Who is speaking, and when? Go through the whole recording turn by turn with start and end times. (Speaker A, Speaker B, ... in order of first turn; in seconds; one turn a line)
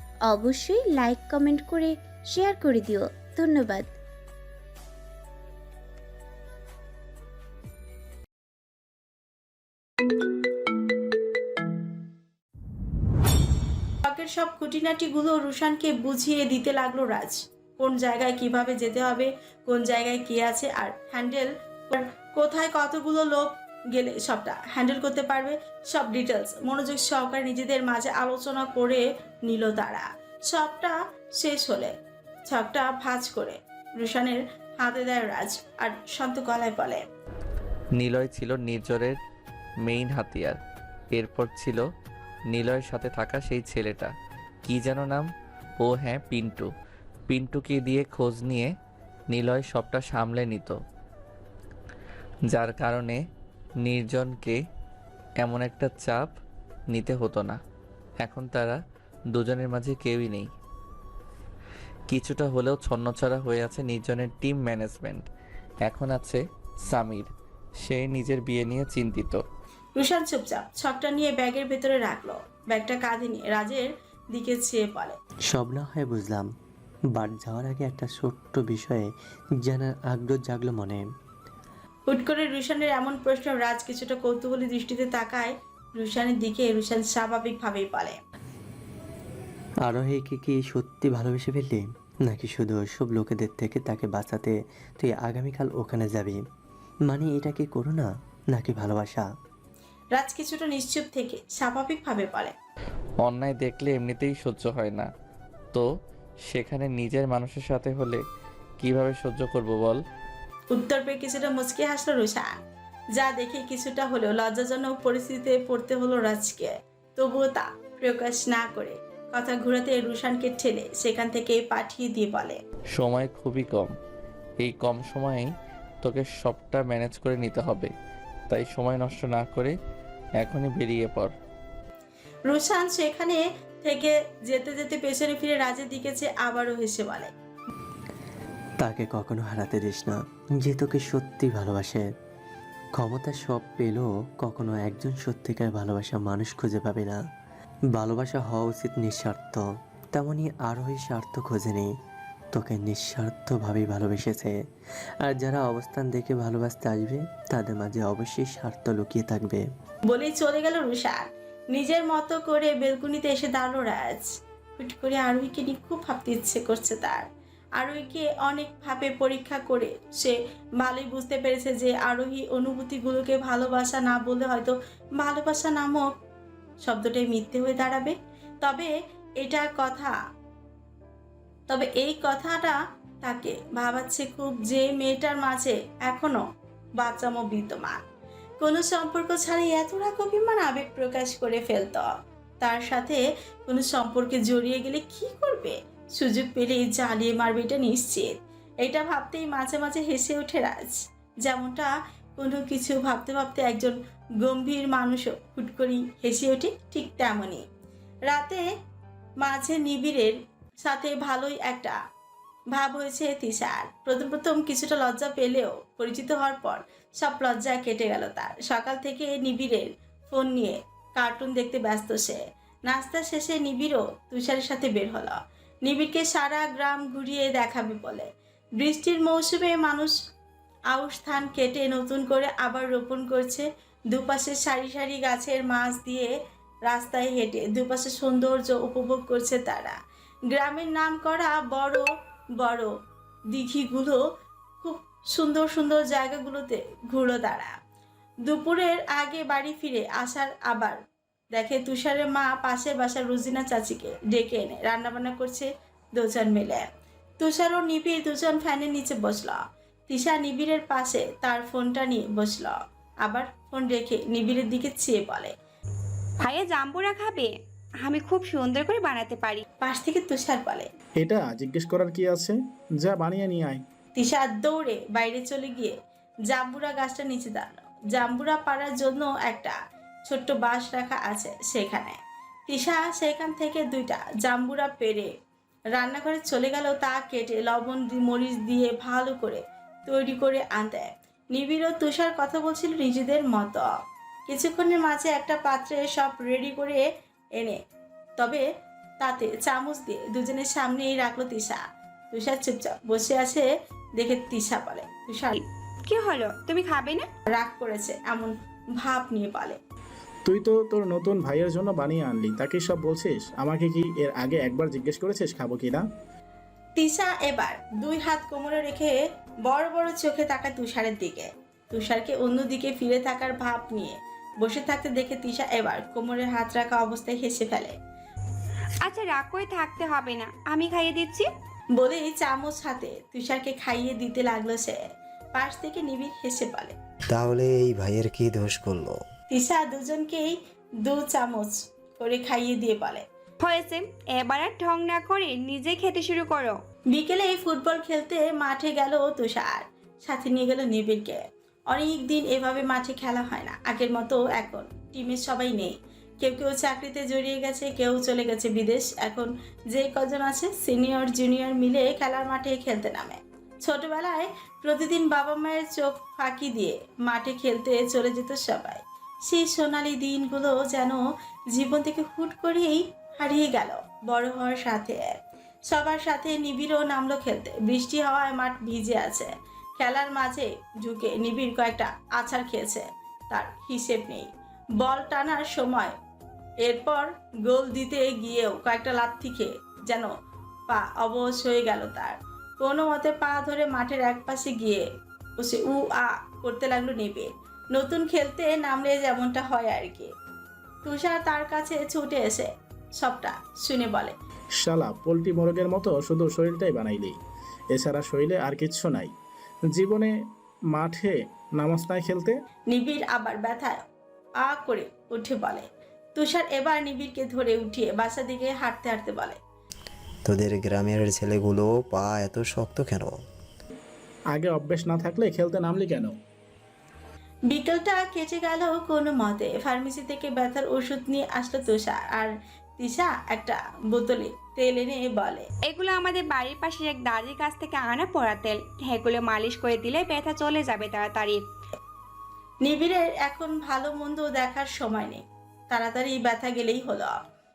Speaker A: 0.2-3.9
Speaker B: 14.0-31.9
Speaker B: 32.5-37.0
Speaker C: 38.0-39.2
Speaker C: 39.8-40.6
Speaker C: 41.1-41.9
Speaker C: 42.5-44.1
Speaker C: 44.6-45.3
Speaker C: 45.8-46.7
Speaker C: 47.3-48.7
Speaker C: 49.3-50.8
Speaker C: 52.5-53.2
Speaker C: 53.8-54.6
Speaker C: 55.4-56.4
Speaker C: 56.9-57.6
Speaker C: 58.2-58.8
Speaker C: 59.3-60.5
Speaker C: 62.1-65.3
Speaker C: 65.8-67.3
Speaker C: 67.8-69.4
Speaker B: 70.0-75.2
Speaker D: 75.5-76.5
Speaker D: 77.1-79.1
Speaker D: 79.6-81.0
Speaker B: 82.1-88.2
Speaker D: 89.8-96.4
Speaker D: 97.1-99.3
Speaker B: 100.1-102.5
Speaker C: 103.2-105.1
Speaker C: 106.5-108.2
Speaker C: 108.8-110.0
Speaker B: 110.7-112.6
Speaker B: 113.2-122.6
Speaker C: 122.9-123.9
Speaker C: 124.6-127.9
Speaker C: 128.5-129.8
Speaker C: 130.4-131.3
Speaker B: 132.5-137.3
Speaker D: 138.8-142.1
Speaker D: 142.9-147.2
Speaker D: 147.9-151.9
Speaker D: 152.5-154.6
Speaker D: 155.2-159.6
Speaker B: 160.1-176.1
Speaker B: 176.8-180.1
Speaker B: 181.7-186.4
Speaker B: 187.0-188.0
Speaker B: 188.6-192.1
Speaker B: 192.6-207.6
Speaker B: 208.3-208.7
Speaker B: 209.4-212.0
Speaker B: 212.7-230.2
Speaker B: 230.9-236.3
Speaker B: 236.8-240.0
Speaker B: 240.5-242.9
Speaker B: 243.5-244.2
Speaker B: 244.8-247.8
Speaker B: 248.4-251.0
Speaker B: 251.5-256.9
Speaker B: 257.4-265.5
Speaker E: 266.4-269.6
Speaker B: 269.8-270.9
Speaker F: 271.2-273.8
Speaker B: 274.1-275.9
Speaker B: 276.5-279.8
Speaker B: 280.3-285.3
Speaker B: 285.9-293.9
Speaker B: 294.5-297.0
Speaker B: 298.4-298.6
Speaker B: 299.2-305.5
Speaker E: 305.5-307.3
Speaker B: 307.5-309.8
Speaker F: 310.4-316.1
Speaker B: 317.0-327.9
Speaker E: 329.0-331.5
Speaker B: 332.0-335.0
Speaker B: 335.5-336.9
Speaker G: 337.3-339.2
Speaker B: 339.5-343.2
Speaker E: 343.6-346.8
Speaker B: 347.1-375.4
Speaker B: 375.9-386.1
Speaker B: 386.8-390.3
Speaker B: 390.9-395.1
Speaker B: 395.6-400.3
Speaker B: 401.0-404.4
Speaker F: 404.8-407.4
Speaker F: 407.9-409.3
Speaker F: 409.9-410.3
Speaker F: 410.9-412.5
Speaker B: 412.9-414.0
Speaker B: 414.6-419.6
Speaker G: 420.4-423.4
Speaker F: 424.5-426.4
Speaker B: 427.7-435.7
Speaker E: 435.8-441.6
Speaker B: 442.8-447.4